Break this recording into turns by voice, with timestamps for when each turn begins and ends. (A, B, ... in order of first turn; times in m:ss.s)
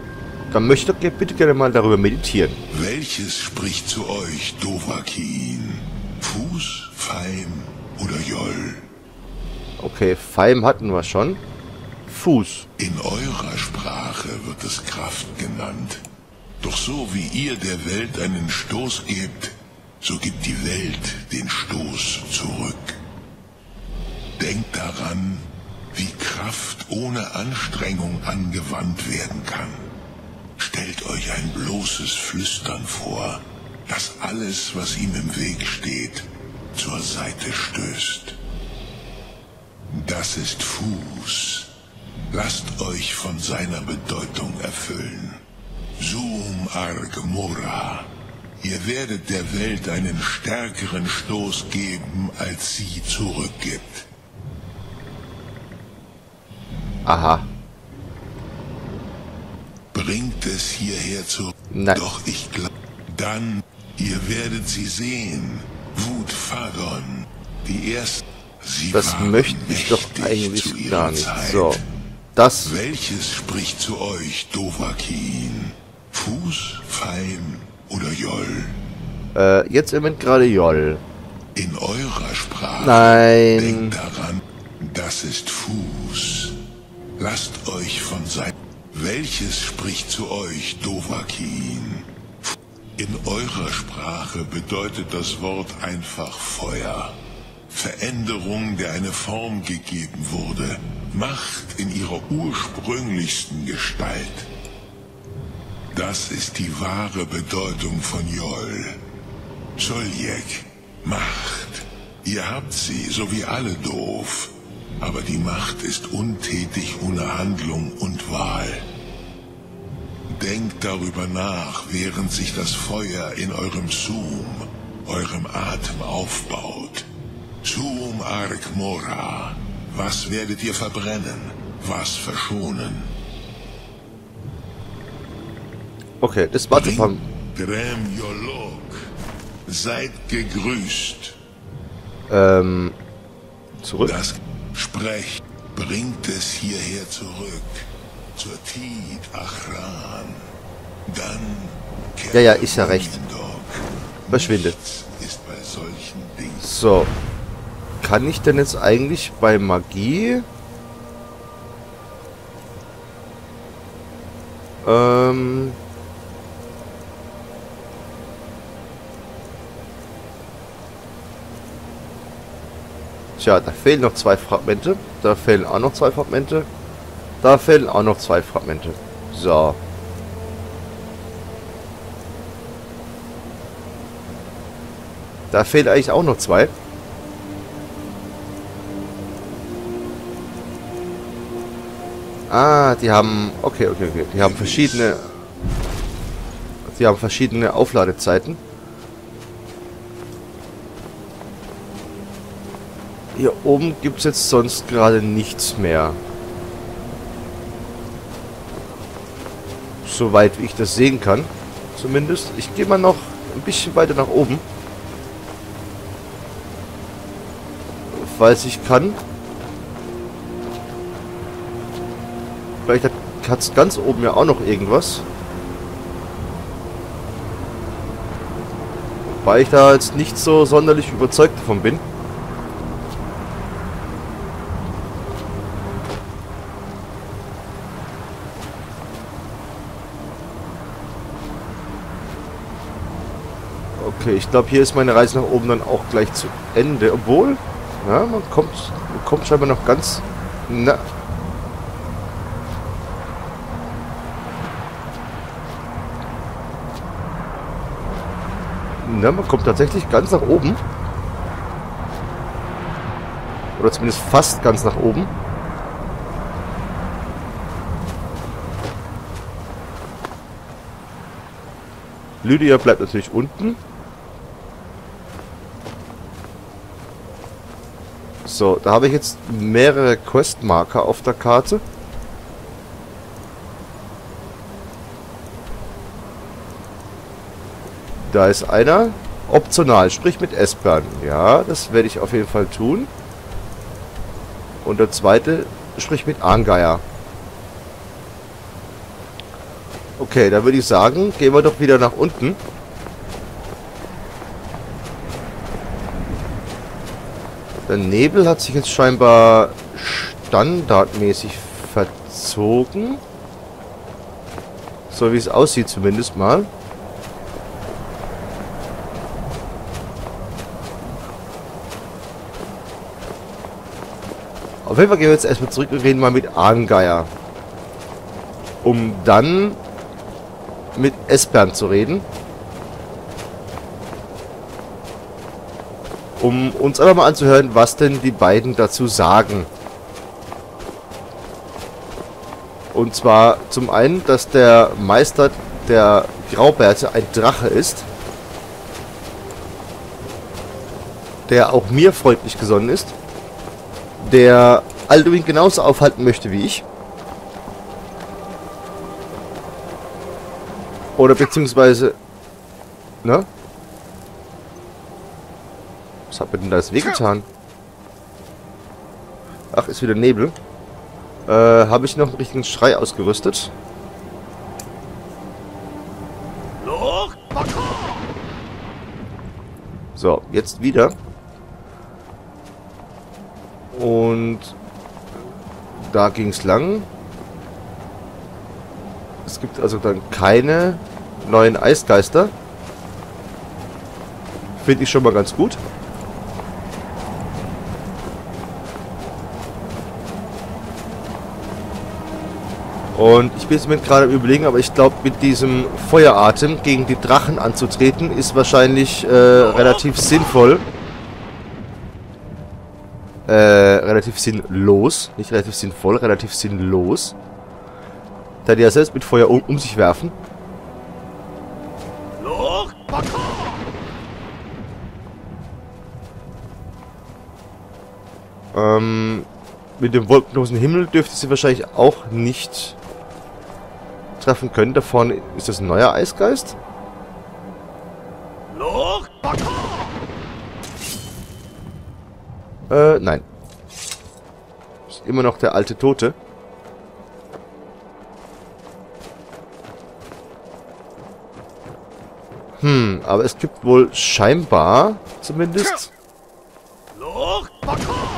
0:00.5-0:02.6 A
0:02.7-0:08.9 B
0:09.8-0:11.4 A
0:12.1-0:12.7 A
0:12.8-0:16.0 B
0:16.6-0:23.0 B
0:24.4-0:29.8 B
0:30.6-0:38.4 B
0:39.9-0:41.7 B
0:42.3-0:45.4 B
0:46.0-0:54.1 B
0:57.0-0:57.5 A
0:59.9-1:11.8 B
1:01.7-1:02.0 A
1:08.9-1:11.8 A
1:12.4-1:12.7 A
1:12.6-1:18.8 B
1:19.3-1:21.0 A
1:21.6-1:26.6 B
1:22.8-1:24.0 A
1:27.2-1:44.5 B
1:45.9-1:49.0 B
1:49.8-1:58.9 B
2:00.3-2:07.1 B
2:07.6-2:13.2 B
2:16.2-2:17.2 A
2:16.7-2:19.1 B
2:19.7-2:21.4 B
2:22.3-2:23.0 A
2:23.8-2:24.2 A
2:24.0-2:30.5 B
2:31.1-2:36.7 B
2:32.3-2:33.2 A
2:34.3-2:34.8 A
2:36.6-2:37.1 A
2:38.0-2:40.5 A
2:44.8-2:45.8 A
2:53.4-2:56.7 A
2:57.4-2:59.8 A
3:05.5-3:06.8 A
3:12.5-3:15.3 A
3:16.8-3:18.6 A
3:23.3-3:26.2 A
3:30.0-3:34.6 A
3:38.1-3:39.2 A
3:42.8-3:45.3 A
3:49.2-3:52.0 A
4:04.0-4:11.0 A
4:19.0-4:20.8 A
4:23.8-4:25.3 A
4:32.4-4:33.8 A
4:38.4-4:41.8 A
4:48.2-4:53.1 A
4:54.8-4:57.0 A
5:00.2-5:02.6 A
5:07.9-5:13.2 A
5:15.1-5:16.7 A
5:24.8-5:27.3 A
5:28.8-5:29.8 A
5:31.0-5:32.3 A
5:36.4-5:39.7 A
5:42.9-5:48.1 A
5:51.5-5:53.2 A
5:54.2-5:56.8 A
6:01.2-6:02.2 A
6:03.2-6:03.5 A
6:06.3-6:07.5 A
6:09.7-6:10.6 A
6:11.5-6:13.7 A
6:20.2-6:21.2 A
6:23.9-6:24.8 A
6:25.9-6:27.1 A
6:29.5-6:32.5 A
6:34.8-6:35.8 A
6:43.1-6:50.9 A
6:53.5-6:57.4 A
6:58.6-7:00.4 A
7:08.7-7:13.0 A
7:14.4-7:16.8 A
7:22.9-7:23.4 A
7:25.1-7:26.4 A
7:32.8-7:36.1 A